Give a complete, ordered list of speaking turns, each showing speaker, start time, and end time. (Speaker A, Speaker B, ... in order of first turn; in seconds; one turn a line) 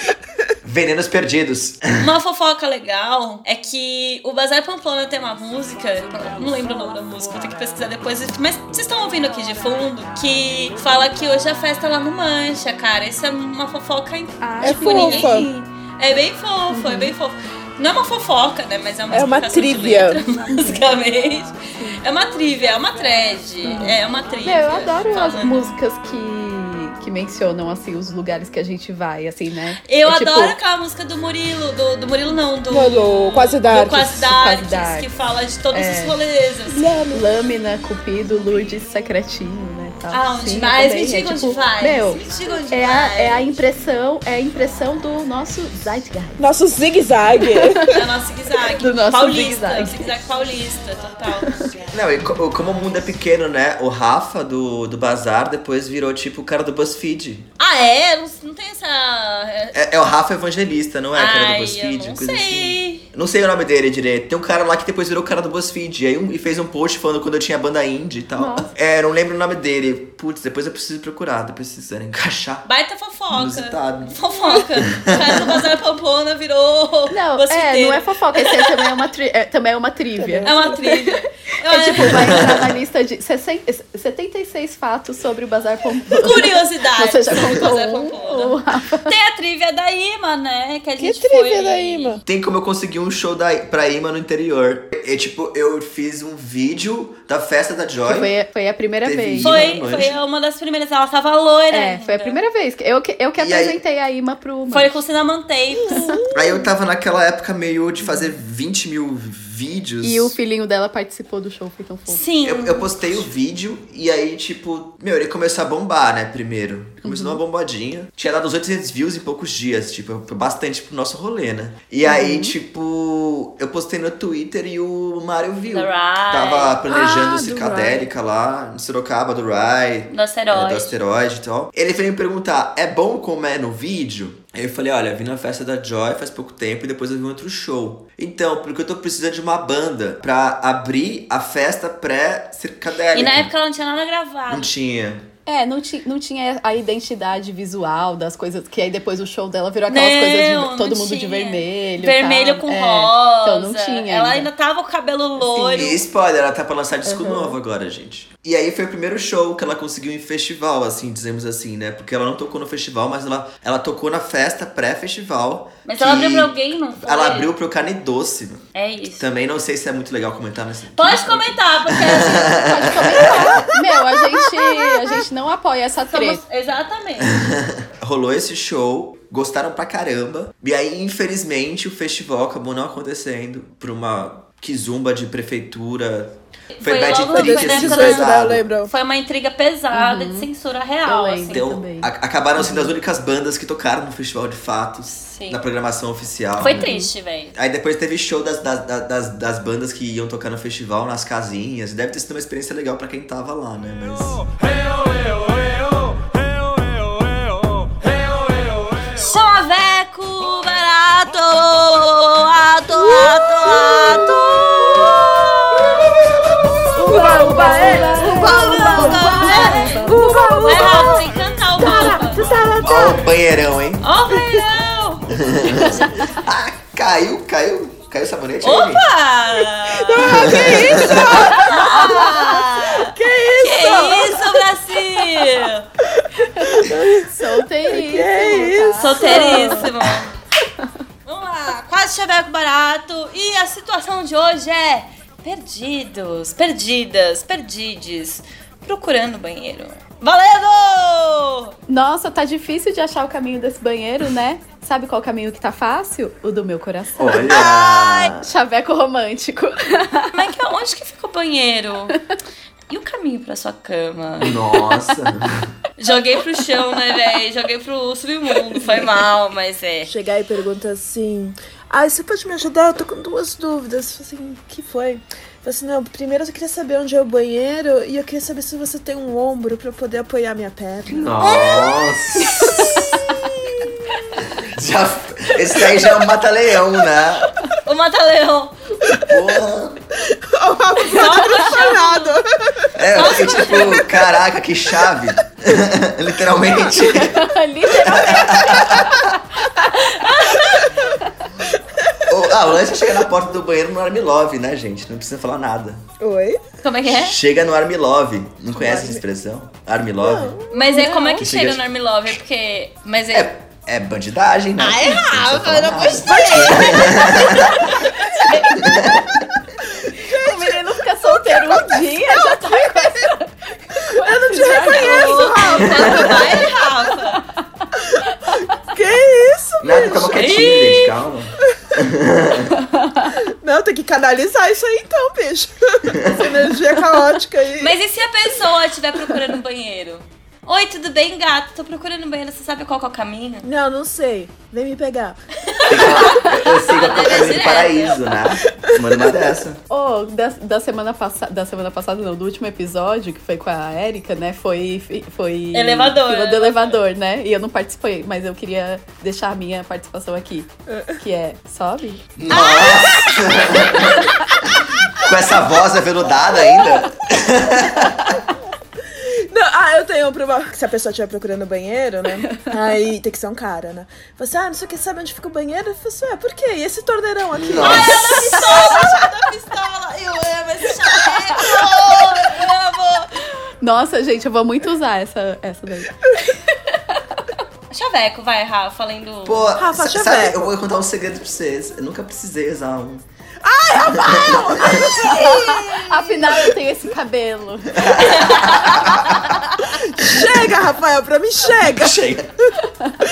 Speaker A: 0.6-2.1
Speaker B: 2.0-25.7
Speaker C: 14.4-15.5
Speaker D: 14.6-15.5
Speaker C: 16.7-17.1
Speaker D: 19.1-20.2
Speaker C: 23.7-30.6
Speaker B: 29.9-36.9
Speaker D: 32.7-34.3
Speaker C: 34.2-35.1
Speaker C: 35.7-36.1
Speaker D: 36.7-37.2
Speaker C: 37.1-46.4
Speaker B: 40.1-43.5
Speaker D: 46.4-47.9
Speaker C: 47.4-48.0
Speaker B: 47.9-51.7
Speaker C: 48.8-50.1
Speaker A: 51.9-57.5
Speaker B: 57.6-59.8
Speaker A: 59.7-72.7
Speaker B: 61.1-63.0
Speaker C: 68.4-68.7
Speaker B: 72.7-79.0
Speaker A: 73.3-74.2
Speaker A: 74.9-75.5
Speaker C: 77.1-89.1
Speaker D: 80.2-80.5
Speaker B: 80.4-82.6
Speaker A: 82.2-82.7
Speaker B: 86.1-92.2
Speaker D: 91.0-92.2
Speaker A: 92.3-98.3
Speaker C: 98.1-99.6
Speaker A: 99.0-100.2
Speaker B: 99.4-102.4
Speaker C: 101.7-105.0
Speaker A: 103.4-103.8
Speaker B: 104.7-106.2
Speaker C: 105.9-106.2
Speaker A: 106.3-110.4
Speaker C: 110.0-112.2
Speaker B: 112.1-112.9
Speaker A: 112.4-143.5
Speaker C: 117.0-117.4
Speaker C: 122.0-122.5
Speaker B: 125.7-126.8
Speaker D: 127.2-128.0
Speaker B: 130.1-130.9
Speaker B: 143.1-144.7
Speaker A: 144.5-145.3
Speaker C: 145.5-154.5
Speaker B: 149.9-156.0
Speaker C: 155.4-156.0
Speaker A: 155.8-168.7
Speaker C: 157.1-157.6
Speaker B: 165.9-167.5
Speaker B: 168.8-169.3
Speaker A: 169.2-173.7
Speaker B: 171.0-173.2
Speaker C: 172.1-176.4
Speaker B: 176.1-177.3
Speaker A: 177.2-188.7
Speaker B: 186.8-188.3
Speaker D: 187.3-188.9
Speaker B: 188.9-191.7
Speaker C: 189.9-190.5
Speaker C: 191.1-192.9
Speaker A: 191.5-196.9
Speaker B: 195.2-195.6
Speaker B: 196.6-197.6
Speaker C: 196.7-197.1
Speaker A: 197.6-204.5
Speaker B: 209.1-216.1
Speaker C: 216.9-221.1
Speaker D: 216.9-221.2
Speaker B: 217.0-222.6
Speaker A: 218.6-218.9
Speaker D: 221.8-223.2
Speaker C: 221.8-222.2
Speaker A: 222.8-224.1
Speaker B: 224.0-226.3
Speaker A: 225.3-229.1
Speaker B: 228.6-235.9
Speaker D: 229.9-234.6
Speaker A: 230.2-231.4
Speaker D: 236.2-237.3
Speaker C: 236.7-239.9
Speaker D: 237.9-239.9
Speaker B: 239.0-240.3
Speaker B: 241.3-251.8
Speaker C: 251.9-257.5
Speaker A: 257.2-258.5
Speaker B: 257.5-258.4
Speaker C: 258.4-260.3
Speaker B: 260.3-262.2
Speaker B: 262.9-264.7
Speaker A: 264.4-265.7
Speaker B: 266.0-270.1
Speaker C: 268.8-269.1
Speaker D: 270.1-281.3
Speaker A: 281.1-283.2
Speaker B: 281.4-281.8
Speaker A: 284.5-287.5
Speaker B: 287.8-288.7
Speaker A: 289.2-290.0
Speaker D: 290.4-292.9
Speaker B: 291.0-292.4
Speaker A: 292.9-299.3
Speaker B: 293.1-294.0
Speaker C: 297.0-300.3
Speaker B: 300.1-300.9
Speaker C: 301.0-301.3
Speaker A: 302.3-306.0
Speaker D: 306.2-306.6
Speaker B: 306.8-307.4
Speaker A: 307.1-310.6
Speaker D: 308.8-309.2
Speaker D: 310.2-311.1
Speaker B: 310.7-313.5
Speaker C: 310.9-311.5
Speaker A: 311.4-311.8
Speaker A: 313.3-318.0
Speaker B: 314.8-318.7
Speaker A: 318.8-319.4
Speaker D: 320.0-322.8
Speaker C: 320.2-325.6
Speaker D: 324.0-326.6
Speaker B: 324.6-327.4
Speaker A: 325.9-326.3
Speaker C: 328.3-328.6
Speaker D: 328.8-330.6
Speaker A: 329.8-332.8
Speaker B: 330.3-331.1
Speaker C: 332.8-333.3
Speaker D: 333.6-337.9
Speaker A: 336.1-336.5
Speaker B: 337.8-343.7
Speaker D: 343.6-345.4
Speaker B: 345.7-348.4
Speaker A: 345.9-349.8
Speaker C: 349.9-362.2
Speaker B: 355.7-357.0
Speaker D: 360.9-361.2
Speaker A: 362.4-368.4
Speaker B: 362.5-363.4
Speaker D: 369.2-378.6
Speaker A: 377.5-378.4
Speaker B: 377.8-383.4
Speaker C: 383.8-387.4
Speaker B: 387.9-389.7
Speaker A: 389.4-393.3
Speaker D: 389.8-390.7
Speaker D: 393.6-396.3
Speaker A: 394.0-395.7
Speaker C: 395.2-398.7
Speaker A: 398.0-399.4
Speaker B: 398.4-398.7
Speaker D: 400.1-402.2
Speaker A: 400.2-400.5
Speaker A: 401.8-402.5